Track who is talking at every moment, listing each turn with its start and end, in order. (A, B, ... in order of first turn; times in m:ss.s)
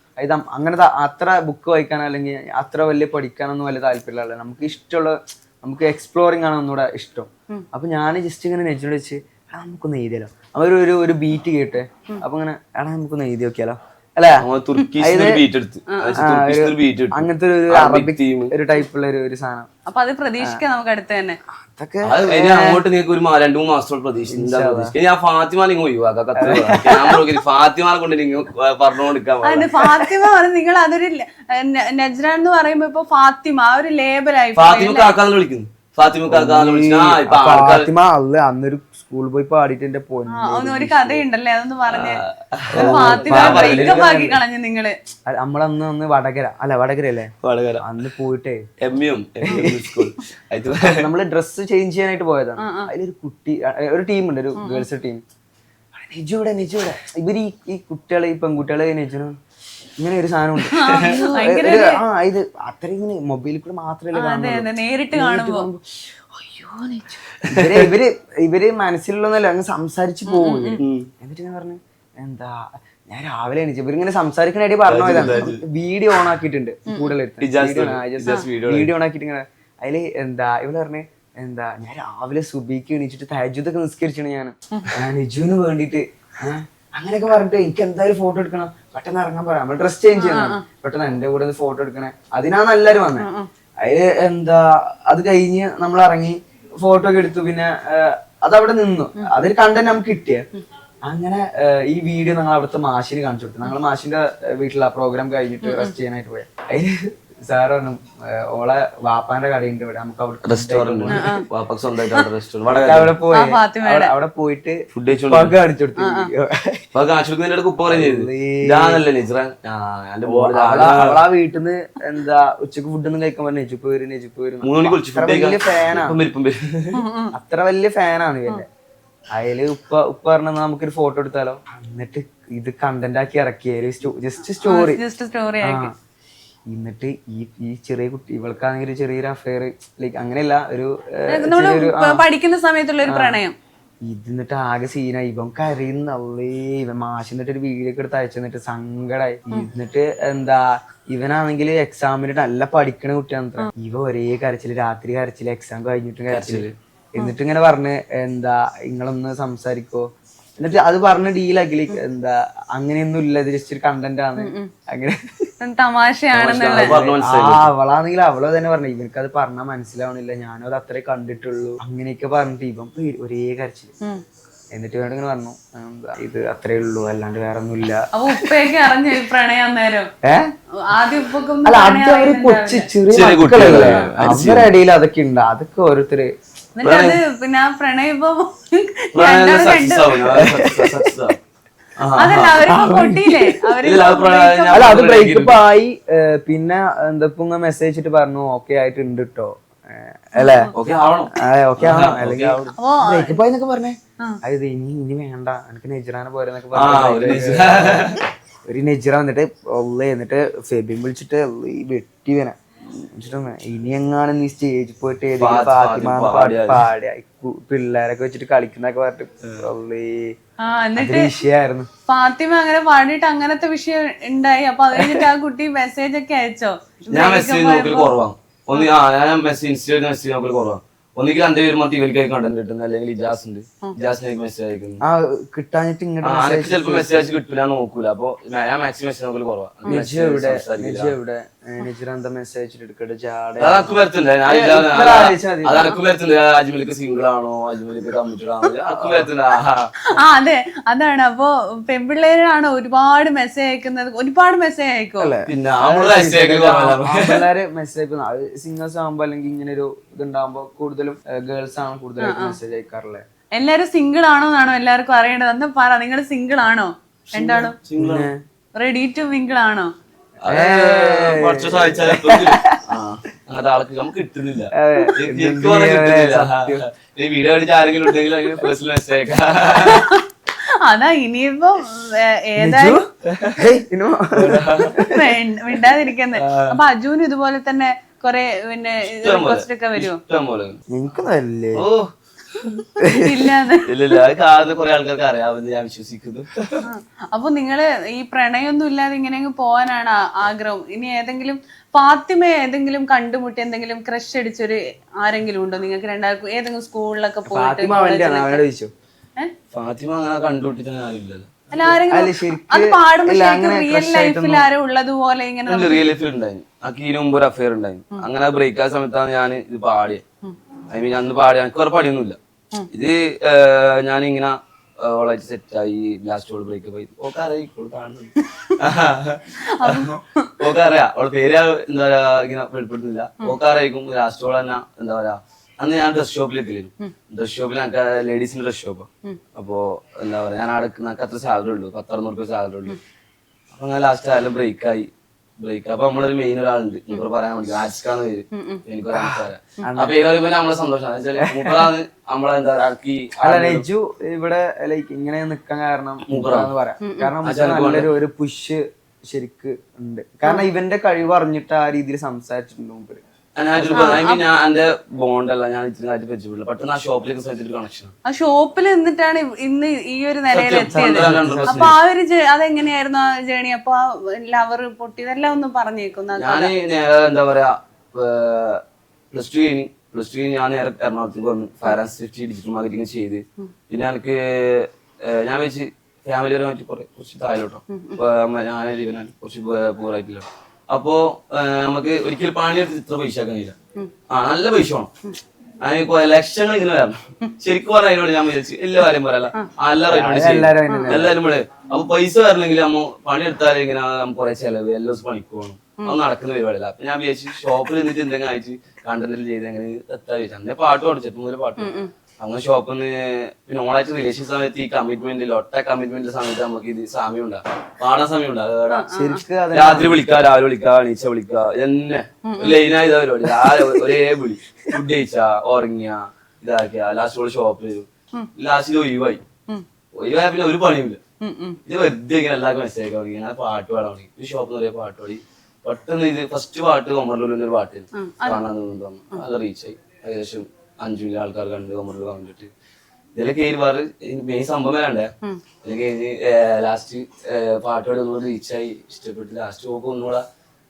0:00.2-0:14.4 A
0:14.4-0:18.5 B
0:15.0-0:15.4 A
0:15.9-0:16.2 C
0:16.2-0:19.7 A
0:19.8-0:21.4 C
0:21.6-0:22.8 A
0:22.0-0:30.0 B
0:24.3-0:24.9 A
0:26.4-0:27.3 A
0:29.4-0:35.1 C
0:34.6-0:37.9 B
0:36.3-0:41.2 A
0:40.3-0:42.2 C
0:41.9-0:44.3 B
0:42.7-0:44.2 A
0:42.7-0:44.9 C
0:45.3-0:48.6 A
0:47.4-0:47.8 B
0:48.8-0:51.1 B
0:49.4-0:49.8 A
0:50.8-0:55.2 A
0:52.6-0:52.9 C
0:54.6-0:54.8 C
0:55.9-0:59.3 A
1:00.0-1:33.3 A
1:00.7-1:02.0 C
1:00.9-1:01.2 B
1:04.1-1:05.7 C
1:07.4-1:07.9 B
1:10.3-1:10.8 C
1:10.8-1:11.1 B
1:14.8-1:15.6 B
1:16.9-1:17.1 C
1:17.4-1:18.9 B
1:30.1-1:30.6 C
1:33.2-1:33.5 C
1:33.8-1:40.4 A
1:39.2-1:39.5 C
1:41.0-1:51.2 A
1:45.6-1:45.9 C
1:50.4-1:53.1 B
1:51.1-1:51.4 C
1:52.7-1:56.8 A
1:53.3-1:54.1 C
1:54.9-1:55.5 B
1:56.0-1:56.3 C
1:56.9-2:01.2 B
1:57.9-1:59.0 A
2:00.2-2:06.2 A
2:04.6-2:07.0 B
2:06.9-2:07.3 C
2:07.3-2:08.7 A
2:09.3-2:15.0 A
2:14.6-2:15.9 C
2:15.6-2:15.9 A
2:16.7-2:22.2 A
2:21.3-2:23.6 C
2:23.0-2:23.4 A
2:24.0-2:36.6 A
2:36.3-2:36.7 B
2:37.2-2:45.5 A
2:44.4-2:44.7 C
2:45.6-2:46.9 C
2:46.3-2:47.7 B
2:46.8-2:53.9 A
2:54.7-2:58.5 A
2:58.1-3:00.1 C
3:00.2-3:00.5 A
3:00.8-3:02.9 C
3:01.6-3:06.3 A
3:03.1-3:04.7 B
3:06.8-3:10.4 C
3:06.8-3:07.2 B
3:09.1-3:11.4 B
3:10.3-3:11.1 A
3:12.0-3:12.7 B
3:12.2-3:15.0 C
3:12.6-3:13.5 A
3:13.8-3:15.6 B
3:14.7-3:20.7 A
3:20.3-3:20.7 C
3:20.7-3:22.6 B
3:21.3-3:40.4 A
3:22.8-3:23.4 C
3:26.7-3:28.2 B
3:35.4-3:36.8 B
3:40.6-3:41.3 C
3:41.0-3:41.9 A
3:42.1-3:48.1 C
3:47.1-3:55.0 B
3:55.0-3:57.3 A
3:56.2-4:01.1 B
3:59.8-4:05.9 A
4:03.6-4:09.9 B
4:09.0-4:09.3 A
4:10.1-4:15.3 C
4:15.2-4:23.2 A
4:15.5-4:17.4 B
4:22.2-4:22.6 C
4:23.6-4:27.8 C
4:27.4-4:28.3 B
4:28.0-4:28.4 A
4:28.8-4:29.9 C
4:30.4-4:40.1 B
4:30.5-4:32.8 A
4:34.7-4:36.8 A
4:39.8-4:43.0 C
4:42.6-4:45.4 A
4:43.2-4:43.8 B
4:44.3-4:45.0 B
4:45.0-4:50.2 C
4:46.3-4:46.8 B
4:49.0-4:50.8 B
4:50.9-4:51.9 A
4:51.7-4:52.6 B
4:52.6-4:54.2 C
4:53.0-4:53.5 A
4:53.9-4:56.8 B
4:56.8-5:08.6 C
5:07.4-5:08.9 A
5:09.7-5:11.6 B
5:11.7-5:16.0 C
5:12.0-5:14.7 A
5:15.7-5:20.2 B
5:20.9-5:22.4 B
5:22.9-5:43.0 B
5:29.6-5:30.5 C
5:43.7-5:45.1 B
5:45.6-5:53.8 B
5:48.5-5:48.8 C
5:49.1-5:50.2 A
5:51.4-5:51.9 A
5:53.4-6:03.2 A
5:56.3-5:56.7 B
5:57.0-5:57.3 C
5:57.4-5:58.1 B
6:03.6-6:08.1 B
6:03.8-6:04.2 A
6:03.9-6:04.4 C
6:08.2-6:16.7 C
6:10.5-6:12.0 B
6:11.0-6:11.8 A
6:16.4-6:18.8 B
6:19.3-6:33.8 B
6:27.9-6:28.2 C
6:34.3-6:35.1 B
6:35.8-6:59.1 B
6:40.1-6:41.4 A
6:40.9-6:41.1 C
6:51.8-6:52.1 C
6:58.9-6:59.4 C
6:59.1-7:00.2 A
6:59.7-7:09.4 B
7:02.4-7:02.8 C
7:10.2-7:11.2 B
7:11.4-7:11.8 C
7:11.8-7:22.7 B
7:18.1-7:18.6 C
7:23.3-7:25.3 B
7:25.8-7:30.4 B